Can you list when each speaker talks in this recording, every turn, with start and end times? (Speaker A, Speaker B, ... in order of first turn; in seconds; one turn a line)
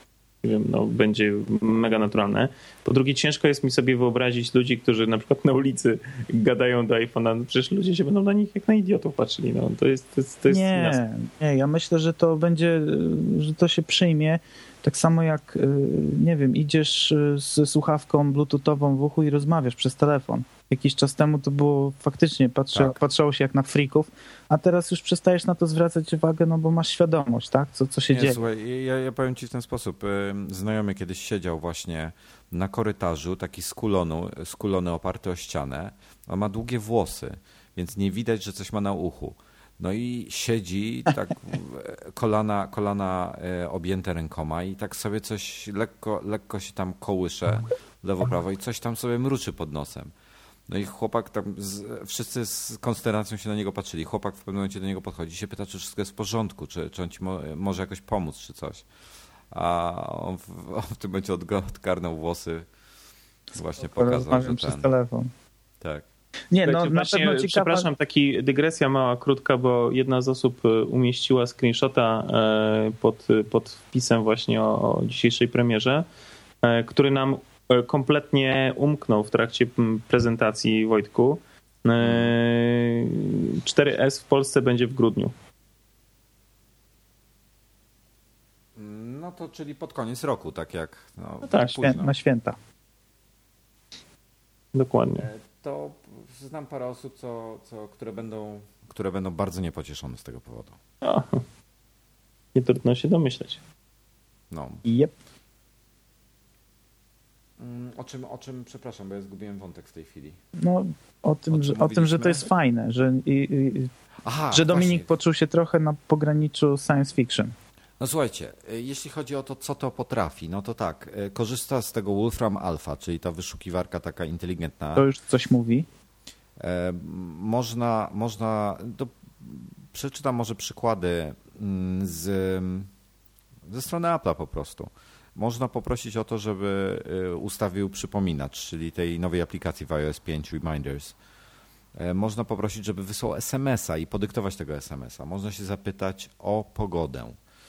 Speaker A: 0.4-11.0
Speaker B: 10.5-28.4
Speaker C: 28.1-50.1
Speaker C: 50.7-58.9
Speaker C: 59.5-62.7
Speaker C: 63.5-64.9
Speaker B: 63.8-65.3
Speaker C: 65.8-66.1
Speaker B: 66.5-67.9
Speaker A: 66.6-76.0
Speaker A: 76.6-85.3
Speaker C: 82.0-82.3
Speaker C: 88.8-92.1
Speaker A: 91.5-91.9
Speaker B: 91.7-92.6
Speaker A: 94.7-95.3
Speaker C: 95.2-100.8
Speaker A: 101.0-101.4
Speaker A: 102.5-103.6
Speaker C: 104.5-104.8
Speaker B: 104.8-105.1
Speaker C: 107.6-110.4
Speaker B: 110.6-113.9
Speaker C: 111.5-112.5
Speaker C: 114.2-115.1
Speaker B: 114.5-117.5
Speaker C: 118.0-125.0
Speaker B: 125.0-125.8
Speaker C: 126.6-132.9
Speaker C: 133.7-141.2
Speaker C: 142.0-147.4